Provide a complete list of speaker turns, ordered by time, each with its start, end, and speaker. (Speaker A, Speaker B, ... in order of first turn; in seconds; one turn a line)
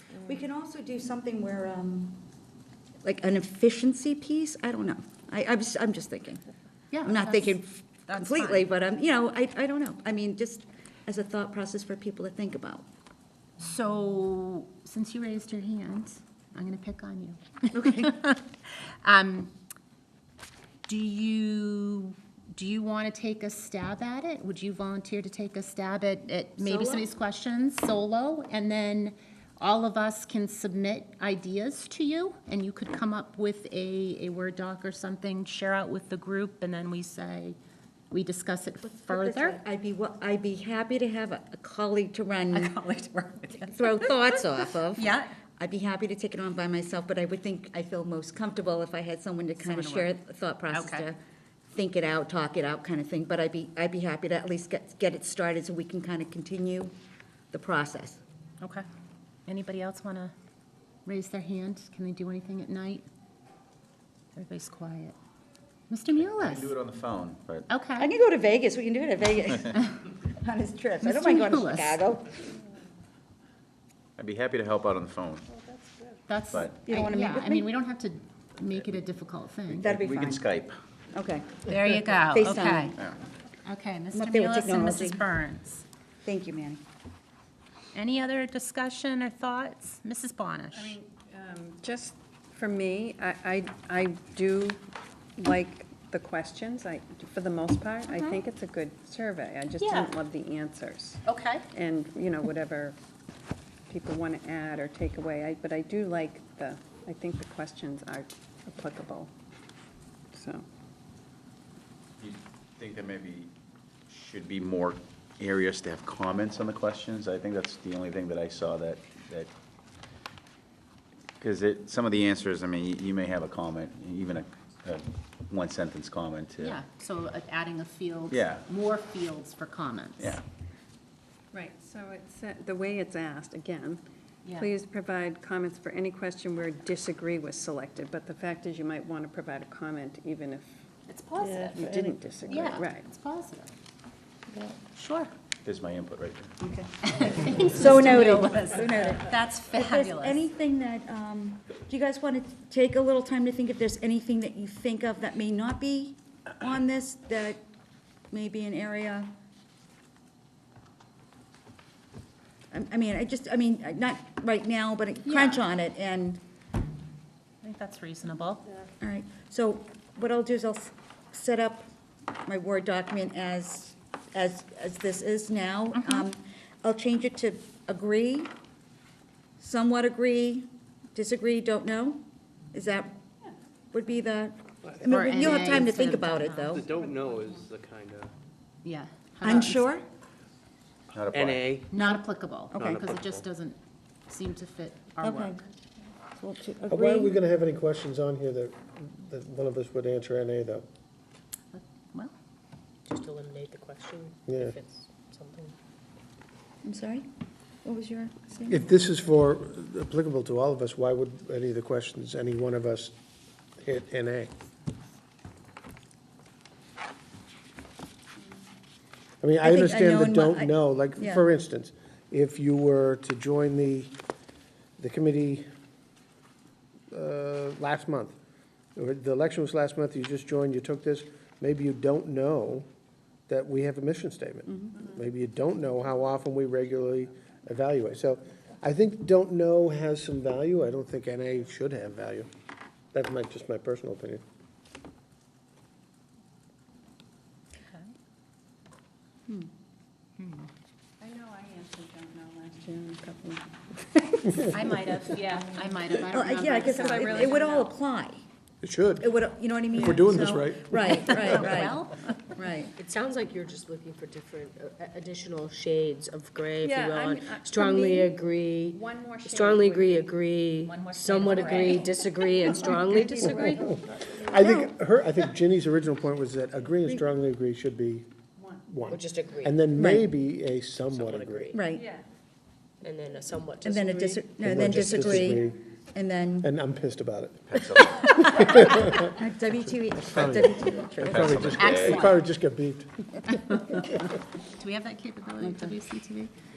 Speaker A: 0.2-2.2
Speaker A: 3.0-6.4
Speaker B: 6.9-8.7
Speaker A: 7.0-12.8
Speaker B: 13.6-19.5
Speaker A: 17.8-18.1
Speaker B: 20.9-37.6
Speaker C: 26.6-27.0
Speaker B: 38.1-39.6
Speaker A: 38.8-42.7
Speaker B: 42.5-45.3
Speaker A: 43.7-51.2
Speaker B: 49.6-50.1
Speaker B: 50.7-51.1
Speaker A: 51.7-56.9
Speaker A: 57.5-58.2
Speaker B: 58.6-58.9
Speaker B: 59.5-60.3
Speaker B: 61.0-63.0
Speaker B: 64.3-65.2
Speaker B: 65.9-66.7
Speaker D: 66.2-67.7
Speaker B: 67.7-68.1
Speaker A: 68.0-72.4
Speaker B: 71.0-72.0
Speaker D: 74.2-75.5
Speaker B: 76.3-79.8
Speaker D: 76.5-76.9
Speaker A: 76.8-77.7
Speaker D: 79.7-80.8
Speaker A: 79.8-80.5
Speaker A: 81.1-81.7
Speaker B: 81.7-83.0
Speaker A: 82.3-82.9
Speaker B: 83.6-85.8
Speaker A: 84.1-85.2
Speaker A: 86.2-86.8
Speaker B: 87.9-91.0
Speaker E: 90.7-94.8
Speaker E: 95.4-103.0
Speaker B: 98.1-98.4
Speaker B: 99.8-100.1
Speaker B: 101.2-101.6
Speaker E: 103.9-109.3
Speaker E: 110.3-110.6
Speaker D: 112.2-113.5
Speaker D: 114.1-119.5
Speaker D: 121.4-126.8
Speaker B: 126.6-130.4
Speaker D: 128.3-128.7
Speaker D: 130.2-130.4
Speaker E: 131.5-140.8
Speaker B: 141.1-141.8
Speaker E: 141.4-143.0
Speaker F: 141.4-142.7
Speaker B: 142.5-143.7
Speaker B: 144.8-145.3
Speaker D: 145.6-146.6
Speaker B: 147.0-150.4
Speaker A: 147.7-157.6
Speaker A: 158.3-159.3
Speaker A: 162.7-166.4
Speaker B: 165.3-165.6
Speaker B: 167.6-168.6
Speaker A: 169.0-171.9
Speaker A: 172.4-178.5
Speaker B: 175.9-176.3
Speaker A: 179.6-183.1
Speaker A: 183.9-186.9
Speaker F: 184.9-185.5
Speaker B: 185.0-186.9
Speaker F: 186.7-188.3
Speaker E: 186.9-187.7
Speaker B: 188.8-189.9
Speaker A: 189.4-190.0
Speaker D: 191.1-191.8
Speaker F: 191.3-191.9
Speaker B: 191.9-193.8
Speaker A: 191.9-193.0
Speaker F: 192.7-193.4
Speaker B: 194.3-195.6
Speaker A: 195.2-195.6
Speaker A: 196.4-197.3
Speaker G: 196.9-200.8
Speaker B: 201.7-202.3
Speaker C: 203.1-205.7
Speaker G: 204.5-204.8
Speaker A: 206.8-207.3
Speaker A: 207.8-208.9
Speaker G: 208.7-213.1
Speaker G: 213.8-214.5
Speaker G: 219.4-224.1
Speaker A: 219.6-221.4
Speaker G: 225.0-225.7
Speaker G: 227.1-228.3
Speaker G: 228.9-232.9
Speaker G: 233.5-242.5
Speaker A: 234.7-234.9
Speaker G: 243.1-244.4
Speaker B: 250.4-250.7
Speaker E: 251.2-254.3
Speaker B: 254.6-257.7
Speaker E: 255.3-255.9
Speaker A: 256.3-258.4
Speaker E: 256.5-257.9
Speaker G: 258.8-259.3
Speaker A: 259.2-262.0
Speaker G: 259.9-261.9
Speaker B: 261.3-262.4
Speaker A: 262.5-262.9
Speaker C: 263.0-273.8
Speaker E: 266.8-268.3
Speaker E: 268.9-270.4
Speaker B: 270.8-273.9
Speaker E: 271.5-271.9
Speaker E: 272.6-273.9
Speaker G: 273.4-278.3
Speaker A: 274.5-274.9
Speaker G: 278.9-281.7
Speaker C: 279.1-279.8
Speaker A: 279.9-280.3
Speaker C: 281.1-281.8
Speaker A: 281.7-282.1
Speaker E: 281.9-282.2
Speaker C: 283.0-284.4
Speaker A: 283.8-286.7
Speaker G: 284.6-285.8
Speaker G: 286.6-289.3
Speaker D: 287.7-288.8
Speaker A: 289.2-291.4
Speaker G: 290.2-293.1
Speaker D: 291.2-292.3
Speaker B: 291.7-292.4
Speaker B: 294.7-296.5